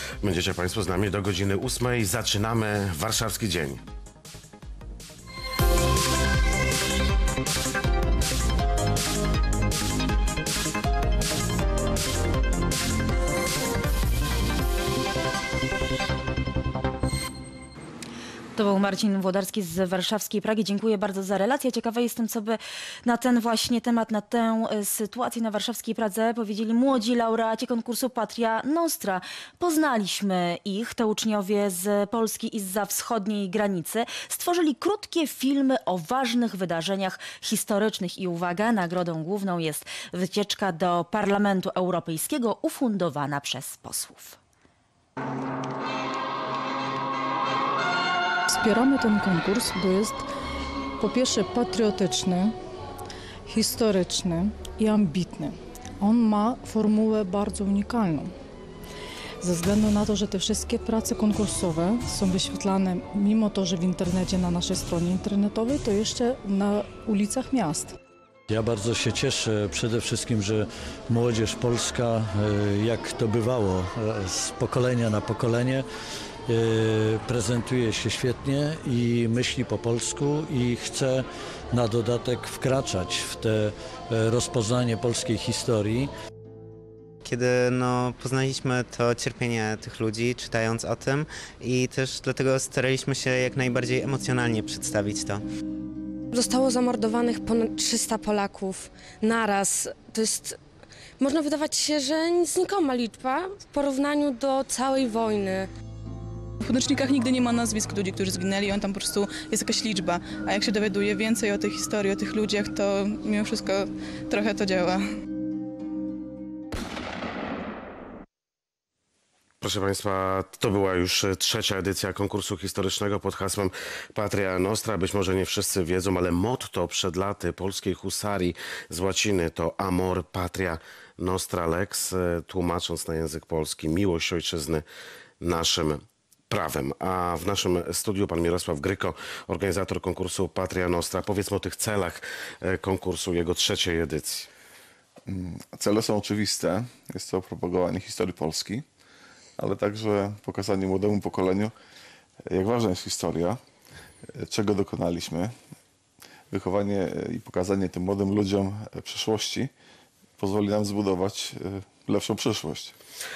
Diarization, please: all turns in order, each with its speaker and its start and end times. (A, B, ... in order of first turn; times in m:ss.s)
0:00.2-0:03.8 A
0:18.6-0:44.4 B
0:48.5-0:50.3 C
0:51.0-0:52.6 C
0:53.5-0:58.3 C
0:59.4-1:07.9 C
1:08.5-1:15.8 D
1:16.5-1:26.1 D
1:27.2-1:35.4 E
1:36.3-1:40.6 F
1:41.2-1:45.7 F
1:46.6-1:55.0 G
1:59.6-2:14.8 A
2:15.4-2:24.5 A
2:25.3-2:28.8 H
2:29.6-2:31.7 H
2:32.5-2:33.6 H
2:34.3-2:35.5 H
2:36.5-2:39.7 H
2:40.4-2:43.0 H